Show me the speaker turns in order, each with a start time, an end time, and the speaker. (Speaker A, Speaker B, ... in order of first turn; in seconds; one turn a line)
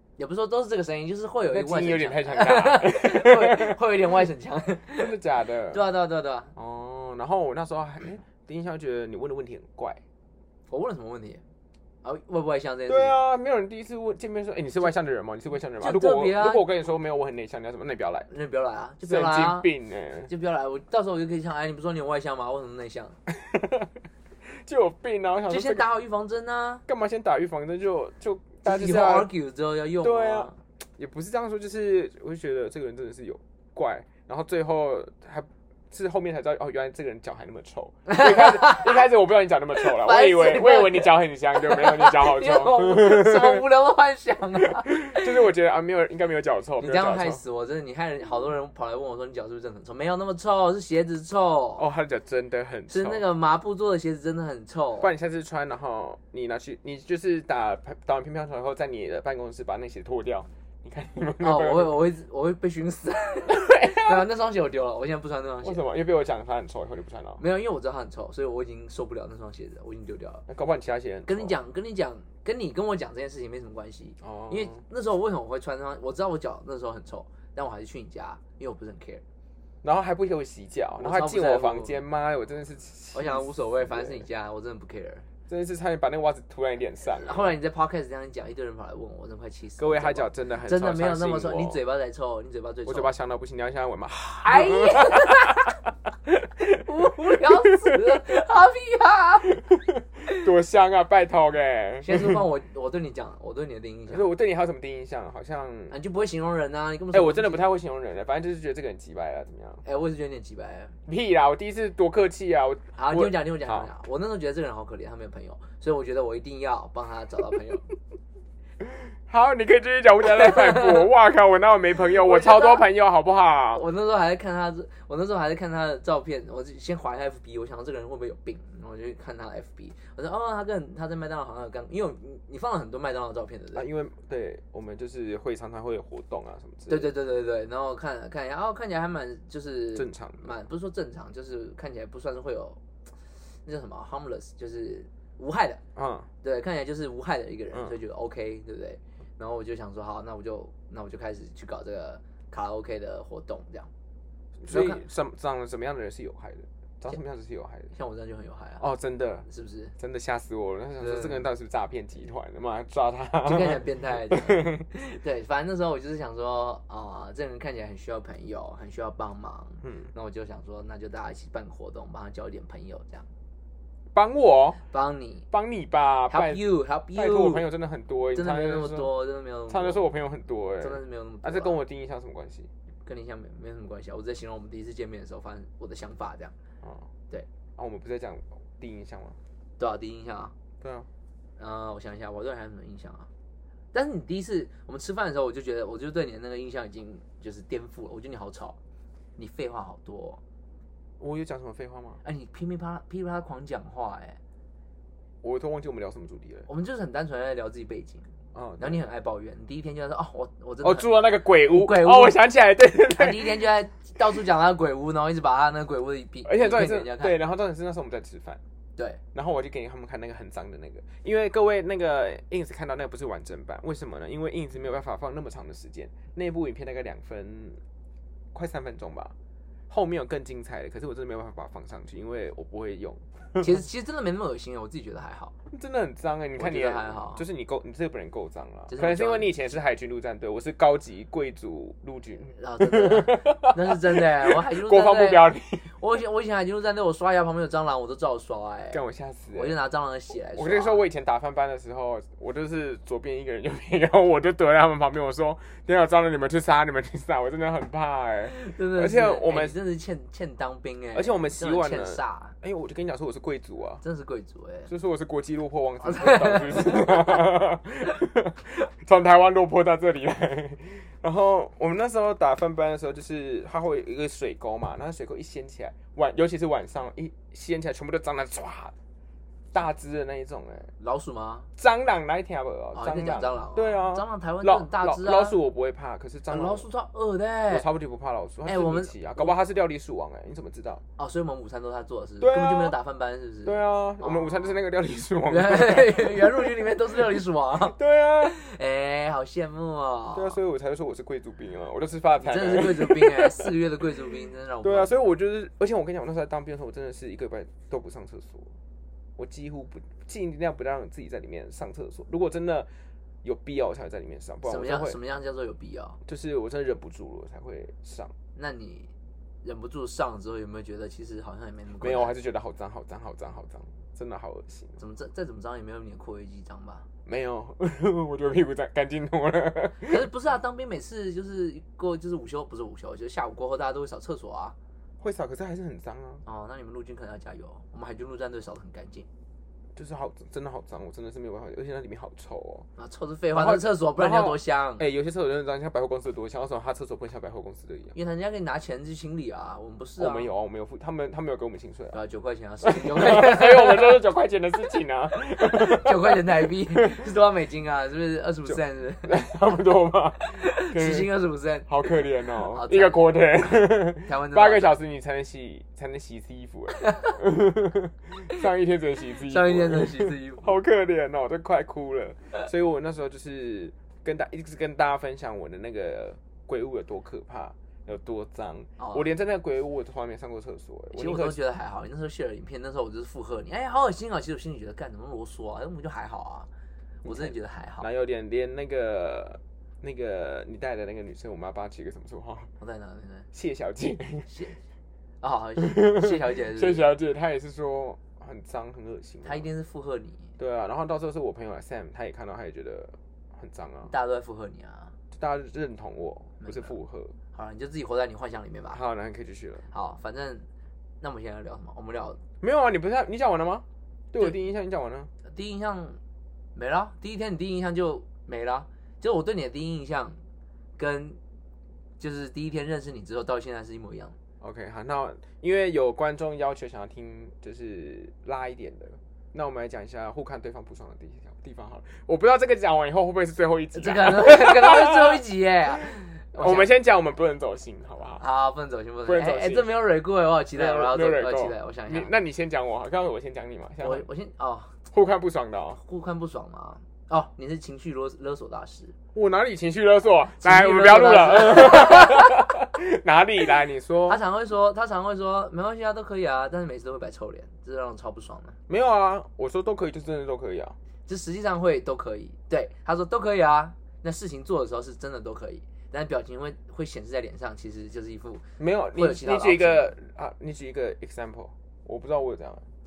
Speaker A: 0.2-5.2
Speaker B: 1.5-3.8
Speaker B: 4.9-5.8
Speaker A: 5.7-6.5
Speaker B: 6.6-10.0
Speaker A: 10.7-11.4
Speaker A: 12.0-13.2
Speaker B: 12.9-18.3
Speaker A: 15.8-16.7
Speaker A: 18.3-19.7
Speaker B: 19.0-20.3
Speaker A: 20.3-23.2
Speaker B: 23.3-23.9
Speaker B: 24.5-25.9
Speaker A: 25.5-26.8
Speaker B: 26.9-29.3
Speaker A: 28.6-30.6
Speaker B: 30.0-43.6
Speaker A: 38.1-39.0
Speaker A: 39.8-45.4
Speaker B: 44.6-47.4
Speaker A: 46.8-51.8
Speaker B: 51.8-53.2
Speaker A: 52.9-55.1
Speaker B: 55.0-62.0
Speaker A: 61.4-65.8
Speaker B: 63.5-64.3
Speaker B: 65.6-67.4
Speaker A: 67.4-70.5
Speaker B: 70.5-71.5
Speaker A: 71.3-79.2
Speaker B: 74.2-74.8
Speaker B: 79.8-84.2
Speaker A: 81.0-82.0
Speaker A: 83.1-85.3
Speaker B: 85.5-87.5
Speaker A: 87.2-93.1
Speaker B: 89.8-91.8
Speaker B: 92.9-95.7
Speaker A: 94.4-95.8
Speaker A: 96.4-99.6
Speaker B: 99.6-102.4
Speaker A: 102.0-104.3
Speaker B: 104.1-106.0
Speaker A: 105.9-107.7
Speaker B: 107.1-109.8
Speaker A: 109.8-111.0
Speaker B: 111.1-113.9
Speaker A: 113.0-117.9
Speaker B: 118.8-123.8
Speaker A: 120.4-120.9
Speaker A: 122.1-122.9
Speaker A: 123.7-133.9
Speaker B: 133.7-137.1
Speaker A: 136.9-142.8
Speaker B: 139.9-140.5
Speaker A: 143.7-145.8
Speaker B: 146.0-146.3
Speaker A: 146.4-153.9
Speaker B: 154.6-157.9
Speaker A: 154.7-155.0
Speaker A: 157.9-158.8
Speaker B: 158.8-159.5
Speaker A: 159.5-159.9
Speaker B: 160.0-164.9
Speaker A: 161.0-161.4
Speaker A: 163.4-173.3
Speaker B: 169.8-170.1
Speaker B: 174.1-174.8
Speaker A: 174.9-175.5
Speaker B: 175.5-176.6
Speaker A: 176.3-177.7
Speaker B: 177.1-179.1
Speaker A: 178.3-180.1
Speaker B: 179.7-182.7
Speaker A: 180.8-181.8
Speaker A: 183.1-186.5
Speaker B: 186.8-187.1
Speaker B: 187.8-189.4
Speaker A: 189.8-190.5
Speaker B: 190.8-191.1
Speaker A: 191.6-193.3
Speaker A: 193.9-198.8
Speaker A: 199.4-200.4
Speaker B: 201.2-202.2
Speaker A: 202.2-204.4
Speaker B: 205.4-206.7
Speaker A: 206.7-208.3
Speaker B: 208.5-209.0
Speaker A: 208.8-212.4
Speaker B: 210.8-213.7
Speaker A: 213.1-217.4
Speaker B: 216.4-218.6
Speaker B: 219.3-227.8
Speaker B: 228.5-229.3
Speaker B: 229.9-233.6
Speaker A: 233.6-235.5
Speaker B: 235.7-245.9
Speaker A: 236.6-237.4
Speaker A: 238.9-239.6
Speaker A: 242.6-249.0
Speaker B: 248.9-249.8
Speaker A: 249.5-251.0
Speaker B: 250.6-259.8
Speaker A: 258.5-262.6
Speaker B: 261.1-264.0
Speaker A: 264.0-264.9
Speaker B: 264.9-278.9
Speaker A: 266.0-267.4
Speaker B: 279.7-280.9
Speaker A: 281.0-281.7
Speaker B: 281.8-286.9
Speaker A: 282.9-285.6
Speaker A: 286.5-287.9
Speaker B: 287.7-291.0
Speaker A: 288.7-289.5
Speaker A: 291.2-294.8
Speaker B: 292.4-292.9
Speaker B: 293.6-296.8
Speaker A: 295.5-300.6
Speaker B: 297.9-298.6
Speaker B: 300.3-303.7
Speaker A: 302.4-305.1
Speaker B: 304.8-308.7
Speaker B: 309.4-312.9
Speaker B: 313.4-315.2
Speaker A: 314.7-316.2
Speaker B: 316.3-318.3
Speaker A: 318.6-319.1
Speaker A: 319.6-322.3
Speaker B: 322.0-325.0
Speaker A: 325.0-327.1
Speaker B: 327.3-330.2
Speaker A: 330.0-334.8
Speaker B: 335.2-336.4
Speaker A: 336.4-339.3
Speaker B: 340.0-342.9
Speaker A: 343.0-345.0
Speaker B: 343.5-348.1
Speaker A: 348.1-350.5
Speaker B: 350.2-352.2
Speaker A: 352.1-354.2
Speaker B: 352.8-357.2
Speaker A: 355.6-359.5
Speaker B: 358.7-361.3
Speaker A: 360.4-361.9
Speaker B: 361.9-381.6
Speaker A: 362.6-363.3
Speaker A: 364.2-365.0
Speaker A: 369.5-370.7
Speaker A: 379.0-379.2
Speaker A: 381.1-386.7
Speaker A: 387.2-388.1
Speaker B: 387.2-392.7
Speaker A: 392.8-393.5
Speaker B: 393.5-394.5
Speaker A: 394.5-394.8
Speaker A: 395.4-397.1
Speaker B: 395.8-399.7
Speaker A: 399.4-400.5
Speaker B: 400.6-404.1
Speaker A: 404.1-405.1
Speaker B: 405.3-407.4
Speaker A: 406.6-406.9
Speaker A: 407.5-409.0
Speaker B: 408.9-409.9
Speaker A: 409.9-410.7
Speaker A: 411.2-412.4
Speaker B: 412.6-415.3
Speaker A: 415.4-416.2
Speaker A: 416.8-420.4
Speaker A: 421.0-421.4
Speaker A: 422.2-424.4
Speaker B: 424.6-435.4
Speaker A: 433.9-436.9
Speaker B: 436.6-438.4
Speaker A: 438.4-442.3
Speaker B: 439.3-439.9
Speaker B: 440.7-444.2
Speaker A: 444.0-444.9
Speaker B: 445.1-446.0
Speaker A: 446.0-449.1
Speaker B: 449.4-454.4
Speaker A: 450.6-452.6
Speaker A: 454.3-458.8
Speaker B: 458.9-461.0
Speaker A: 461.3-470.1
Speaker B: 468.8-472.8